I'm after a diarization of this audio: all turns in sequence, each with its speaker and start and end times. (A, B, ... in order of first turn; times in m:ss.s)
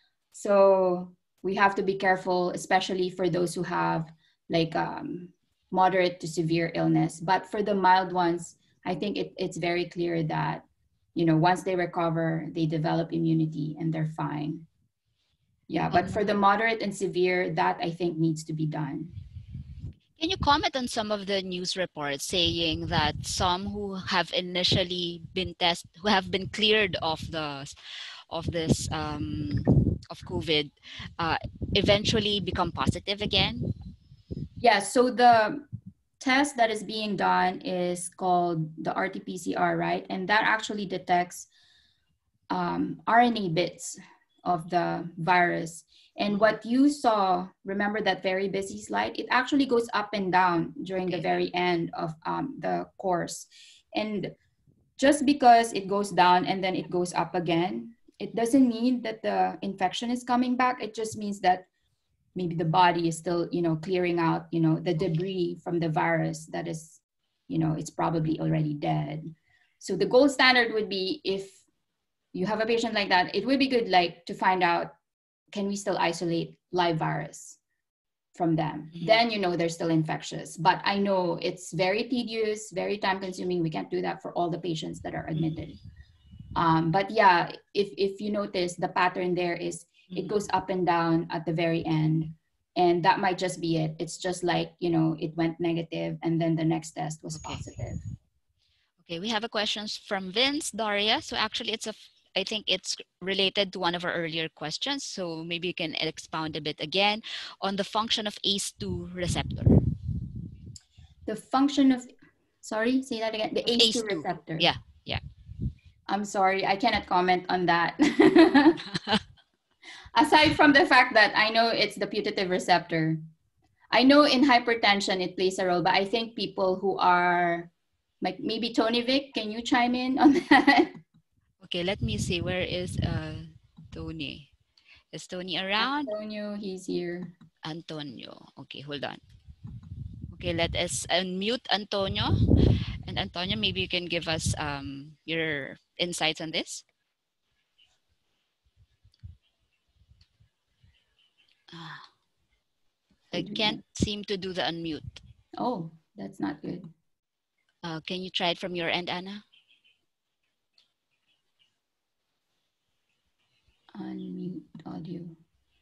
0:00.3-0:14.7 A
0:15.7-0:19.2 A
0:15.9-0:16.3 B
0:20.2-0:27.7 B
0:28.3-0:33.7 B
0:34.6-0:35.6 A
0:36.2-0:41.5 A
0:42.5-0:54.3 A
0:46.3-0:46.6 B
0:55.0-1:01.7 A
1:02.4-1:11.6 A
1:12.3-1:14.9 A
1:15.5-1:17.6 A
1:18.4-1:25.8 A
1:25.4-1:25.7 B
1:26.6-1:38.0 A
1:30.1-1:30.4 B
1:37.3-1:37.6 B
1:39.0-1:49.8 B
1:51.3-1:52.1 A
1:52.6-1:54.7 A
1:53.7-1:55.2 B
1:56.1-1:58.8 A
1:58.9-1:59.2 B
2:00.2-2:03.2 A
2:03.9-2:07.7 A
2:08.2-2:11.0 A
2:11.6-2:14.5 B
2:15.1-2:16.1 B
2:15.8-2:17.3 A
2:17.6-2:19.2 B
2:20.3-2:26.8 B
2:31.7-2:32.0 B
2:33.3-2:35.2 B
2:33.4-2:33.8 A
2:35.6-2:36.9 A
2:37.8-2:39.4 B
2:43.9-2:45.4 A